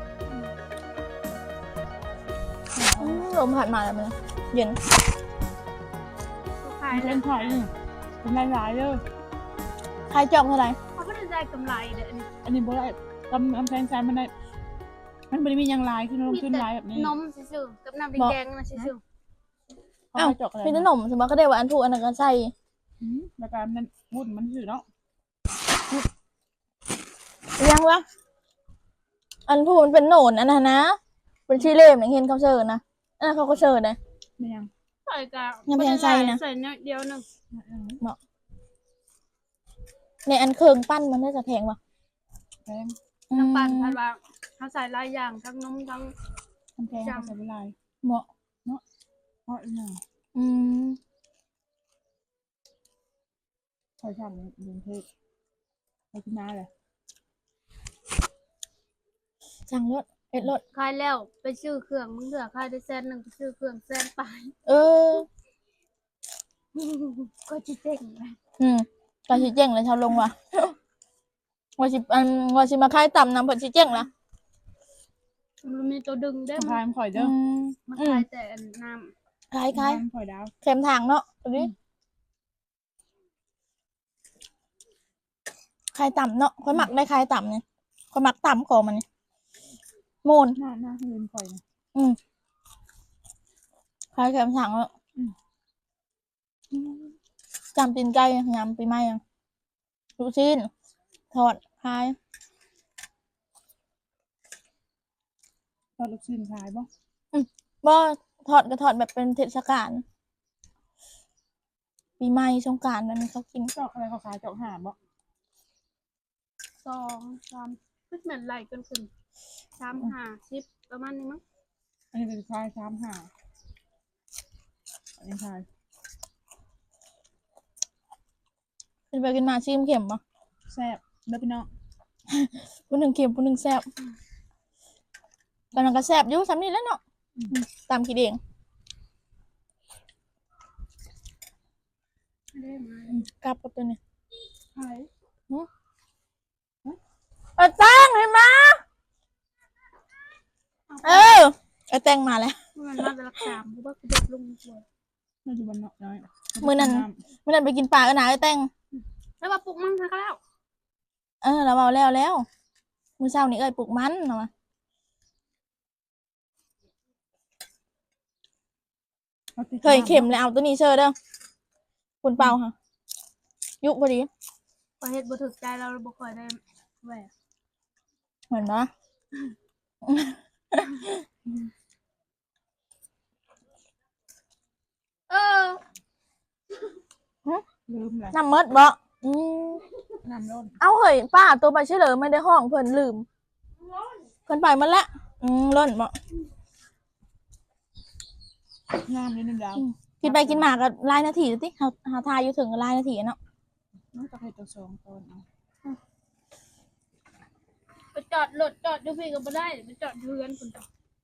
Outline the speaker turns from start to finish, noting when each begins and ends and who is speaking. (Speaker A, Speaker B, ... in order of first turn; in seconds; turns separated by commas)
Speaker A: 2.7-3.3, Speaker B: 3.0-4.8, Speaker C: 6.6-7.4, Speaker A: 6.9-9.0, Speaker B: 10.1-10.8, Speaker C: 10.9-12.3, Speaker A: 12.4-14.3, Speaker A: 15.3-17.2, Speaker C: 16.3-19.0, Speaker A: 20.1-20.9, Speaker B: 20.2-22.5, Speaker A: 23.0-24.8, Speaker B: 27.6-28.1, Speaker B: 29.5-34.0, Speaker A: 34.4-34.7, Speaker C: 35.0-37.2, Speaker B: 35.7-36.4, Speaker A: 37.5-38.0, Speaker B: 40.2-41.8, Speaker A: 42.6-43.0, Speaker C: 43.3-46.1, Speaker B: 43.3-44.0, Speaker A: 46.8-47.7, Speaker B: 48.0-48.3, Speaker A: 49.5-50.0, Speaker B: 50.3-51.0, Speaker A: 54.0-55.0, Speaker A: 56.1-56.7, Speaker B: 59.7-60.6, Speaker C: 60.7-64.5, Speaker B: 64.7-65.2, Speaker C: 66.7-68.4, Speaker B: 68.6-70.8, Speaker B: 71.8-74.1, Speaker C: 75.6-76.7, Speaker A: 76.5-77.3, Speaker B: 77.1-78.2, Speaker C: 77.8-79.1, Speaker B: 79.5-80.0, Speaker A: 79.7-80.5, Speaker B: 80.6-81.7, Speaker B: 85.9-89.0, Speaker A: 86.7-86.9, Speaker B: 90.2-90.5, Speaker A: 90.5-91.6, Speaker B: 94.1-94.9, Speaker B: 97.7-99.2, Speaker B: 100.2-100.7, Speaker B: 101.3-102.2, Speaker A: 106.0-106.9, Speaker B: 107.3-110.0, Speaker B: 112.2-113.7, Speaker A: 113.7-115.0, Speaker C: 116.8-119.1, Speaker C: 119.8-121.4, Speaker A: 122.1-123.3, Speaker A: 125.2-125.6, Speaker B: 129.1-130.2, Speaker A: 130.7-131.7, Speaker B: 132.3-133.9, Speaker B: 135.7-137.0, Speaker B: 137.5-138.4, Speaker C: 142.5-143.2, Speaker B: 143.3-144.0, Speaker A: 144.7-145.1, Speaker B: 147.6-148.8, Speaker C: 150.9-151.4, Speaker B: 151.0-152.6, Speaker C: 152.7-154.8, Speaker A: 155.4-157.2, Speaker B: 156.6-158.7, Speaker C: 159.4-160.4, Speaker B: 161.4-162.4, Speaker B: 163.2-164.5, Speaker A: 169.6-170.4, Speaker B: 169.8-171.2, Speaker B: 172.2-172.7, Speaker B: 173.8-174.3, Speaker C: 175.0-177.3, Speaker B: 178.5-178.9, Speaker B: 180.0-181.2, Speaker C: 185.3-185.8, Speaker A: 187.9-188.4, Speaker B: 188.3-189.8, Speaker A: 190.2-190.8, Speaker B: 190.8-193.2, Speaker B: 194.4-196.2, Speaker A: 199.0-200.7, Speaker B: 199.8-203.4, Speaker A: 204.1-205.4, Speaker C: 208.1-210.8